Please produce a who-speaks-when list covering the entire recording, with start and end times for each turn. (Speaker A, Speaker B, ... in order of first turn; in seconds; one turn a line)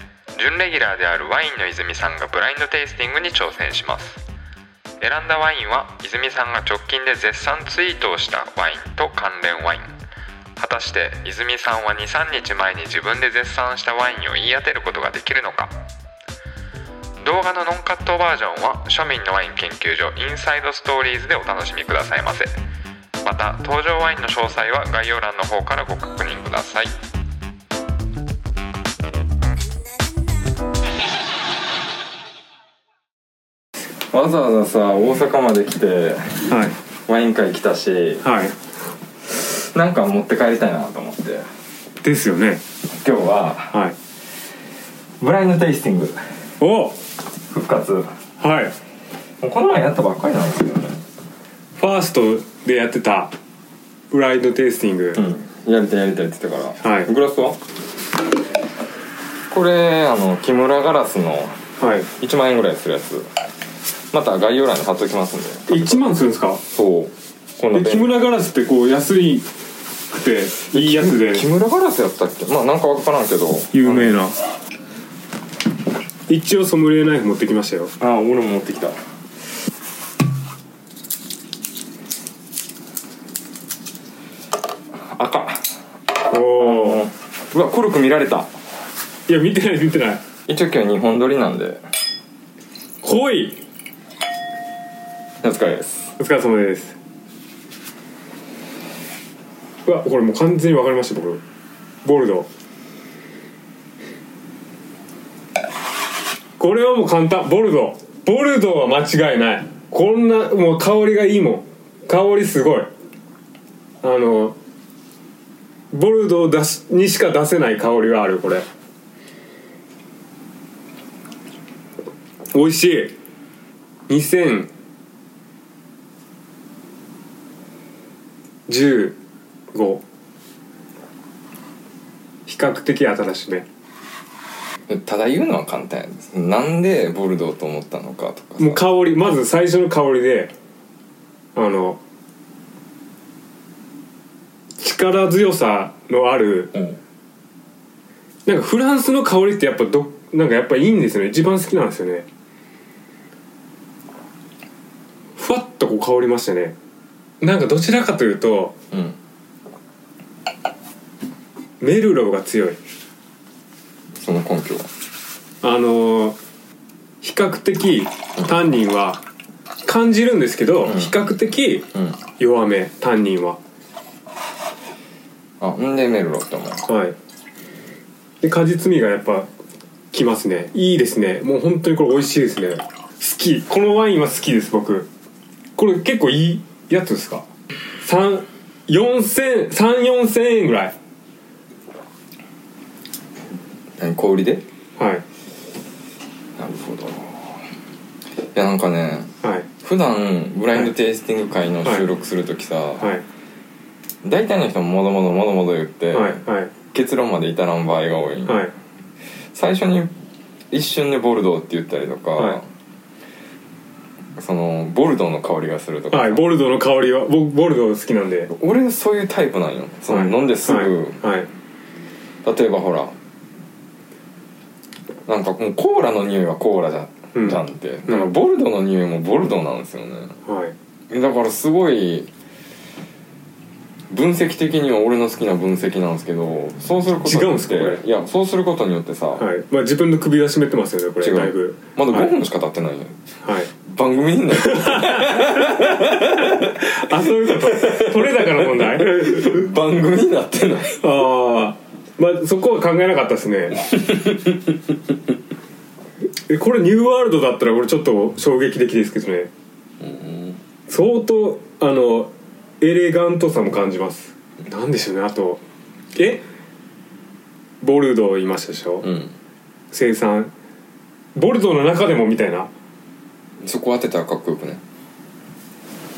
Speaker A: 0.4-4.2
Speaker A: 5.0-9.9
Speaker A: 10.6-15.7
Speaker A: 17.2-22.5
Speaker A: 23.2-26.9
Speaker A: 34.1-36.5
Speaker B: 36.5-36.8
Speaker A: 37.1-38.2
Speaker B: 38.2-38.5
Speaker A: 39.3-41.5
Speaker B: 42.0-42.6
Speaker A: 42.9-43.8
Speaker A: 45.2-46.2
Speaker B: 46.6-47.0
Speaker A: 47.5-48.1
Speaker B: 48.4-48.7
Speaker A: 49.4-51.0
Speaker B: 51.8-53.3
Speaker B: 54.1-55.2
Speaker A: 55.1-57.6
Speaker B: 56.8-57.1
Speaker A: 59.5-61.6
Speaker B: 61.8-62.1
Speaker A: 62.2-63.3
Speaker A: 64.1-66.1
Speaker B: 65.7-66.6
Speaker A: 66.7-68.2
Speaker B: 67.7-69.5
Speaker B: 70.1-71.5
Speaker A: 70.7-74.2
Speaker B: 73.7-74.3
Speaker B: 76.3-77.9
Speaker A: 78.0-79.0
Speaker A: 85.1-85.7
Speaker B: 86.3-87.0
Speaker A: 86.6-88.5
Speaker B: 89.3-90.2
Speaker A: 90.5-91.8
Speaker B: 93.0-93.6
Speaker A: 95.4-96.1
Speaker B: 96.2-97.0
Speaker B: 99.9-101.4
Speaker B: 102.0-102.5
Speaker B: 106.6-112.9
Speaker B: 114.0-114.6
Speaker B: 115.9-118.7
Speaker B: 122.5-123.2
Speaker B: 124.1-124.7
Speaker B: 128.7-129.2
Speaker B: 129.7-130.0
Speaker B: 132.5-133.7
Speaker A: 134.9-138.8
Speaker B: 138.6-140.5
Speaker B: 141.6-142.0
Speaker B: 144.8-146.7
Speaker B: 148.5-152.3
Speaker B: 155.4-156.8
Speaker B: 157.4-158.8
Speaker B: 161.8-162.8
Speaker A: 164.2-164.9
Speaker B: 165.6-166.4
Speaker B: 167.2-169.2
Speaker B: 169.8-171.9
Speaker A: 170.8-171.1
Speaker B: 172.4-173.6
Speaker A: 175.6-176.8
Speaker B: 176.9-177.2
Speaker B: 178.4-179.5
Speaker B: 180.1-185.1
Speaker B: 185.8-187.4
Speaker B: 188.0-190.9
Speaker A: 194.0-194.6
Speaker B: 195.0-195.2
Speaker A: 196.6-197.6
Speaker A: 198.5-199.3
Speaker A: 199.8-203.1
Speaker A: 204.2-208.6
Speaker B: 206.1-206.7
Speaker B: 208.5-208.7
Speaker A: 209.5-210.1
Speaker A: 210.7-212.6
Speaker A: 214.4-216.4
Speaker B: 216.1-218.5
Speaker A: 218.5-221.2
Speaker B: 220.1-221.5
Speaker A: 222.4-223.1
Speaker A: 225.3-230.3
Speaker B: 227.3-228.3
Speaker B: 230.5-230.7
Speaker A: 231.1-232.3
Speaker A: 234.1-239.5
Speaker B: 237.2-238.0
Speaker B: 239.4-242.4
Speaker A: 241.2-243.2
Speaker B: 243.4-243.7
Speaker A: 243.8-246.8
Speaker B: 244.6-249.7
Speaker A: 247.6-251.0
Speaker B: 250.9-253.8
Speaker A: 253.9-254.6
Speaker B: 256.5-259.5
Speaker A: 260.0-260.6
Speaker B: 260.9-265.6
Speaker B: 266.1-266.4
Speaker B: 267.8-269.1
Speaker A: 269.0-269.3
Speaker B: 269.9-270.5
Speaker B: 271.4-272.7
Speaker A: 273.6-274.8